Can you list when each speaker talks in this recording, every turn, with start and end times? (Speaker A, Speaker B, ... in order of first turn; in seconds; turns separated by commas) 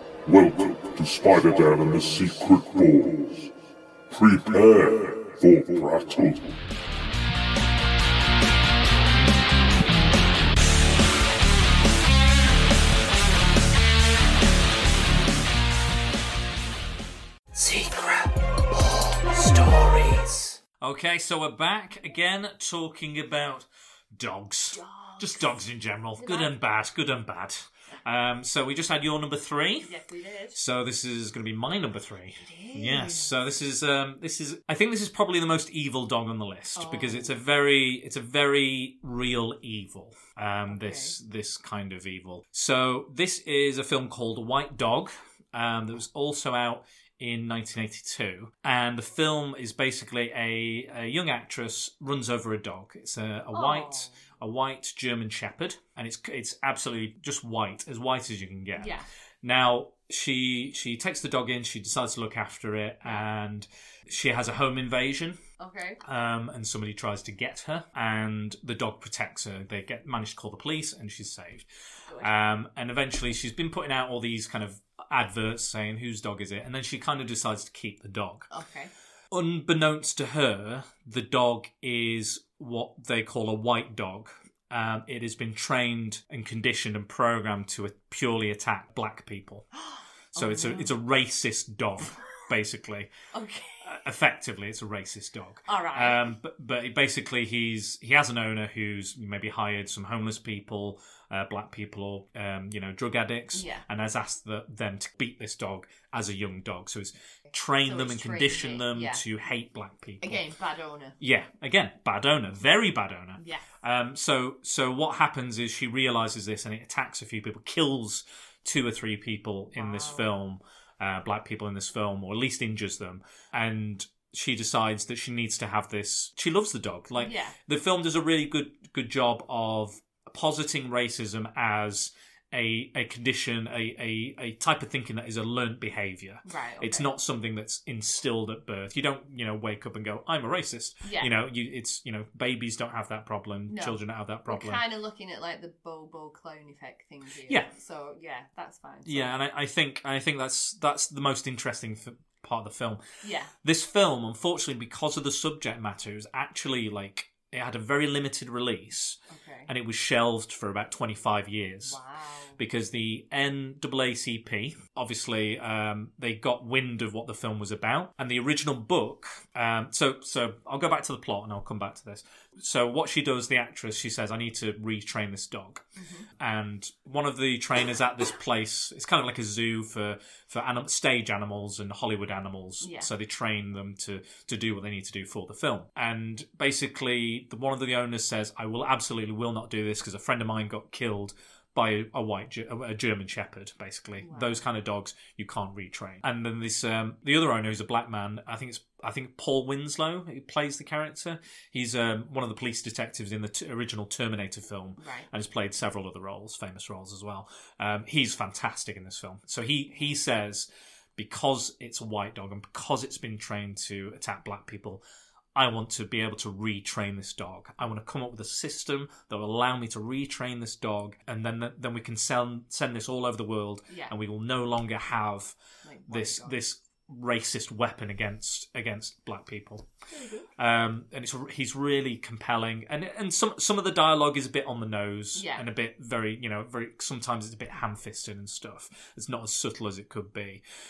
Speaker A: 0.2-3.5, Speaker A: 4.1-6.5, Speaker B: 17.5-29.9, Speaker C: 24.7-25.6, Speaker C: 26.2-26.5, Speaker C: 29.8-30.6, Speaker B: 30.5-65.4, Speaker C: 32.4-33.3, Speaker C: 36.7-37.4, Speaker C: 40.7-41.1, Speaker C: 53.5-54.2, Speaker C: 58.8-59.1, Speaker C: 65.6-66.0, Speaker B: 66.0-71.7, Speaker C: 72.1-72.3, Speaker B: 72.2-78.5, Speaker C: 78.5-78.9, Speaker B: 79.3-89.7, Speaker C: 89.7-90.9, Speaker B: 90.3-93.1, Speaker C: 93.3-93.9, Speaker B: 93.8-110.4, Speaker C: 95.7-96.3, Speaker C: 103.5-103.8, Speaker C: 107.8-109.2, Speaker C: 110.2-111.2, Speaker B: 111.2-144.8, Speaker C: 113.4-113.7, Speaker C: 119.8-120.3, Speaker C: 127.2-127.5, Speaker C: 136.4-137.1, Speaker C: 141.0-141.3, Speaker C: 143.7-149.3, Speaker B: 147.4-147.7, Speaker B: 149.1-153.0, Speaker C: 153.2-153.5, Speaker B: 153.6-162.0, Speaker C: 159.3-159.7, Speaker C: 161.8-162.6, Speaker B: 162.6-175.8, Speaker C: 176.0-176.3, Speaker B: 176.4-215.0, Speaker C: 182.8-183.1, Speaker C: 194.2-194.6, Speaker C: 205.0-205.3, Speaker B: 215.5-225.6, Speaker C: 223.9-224.1, Speaker C: 225.8-226.6, Speaker B: 226.1-229.9, Speaker C: 230.1-230.5, Speaker B: 230.6-240.6, Speaker C: 235.3-235.6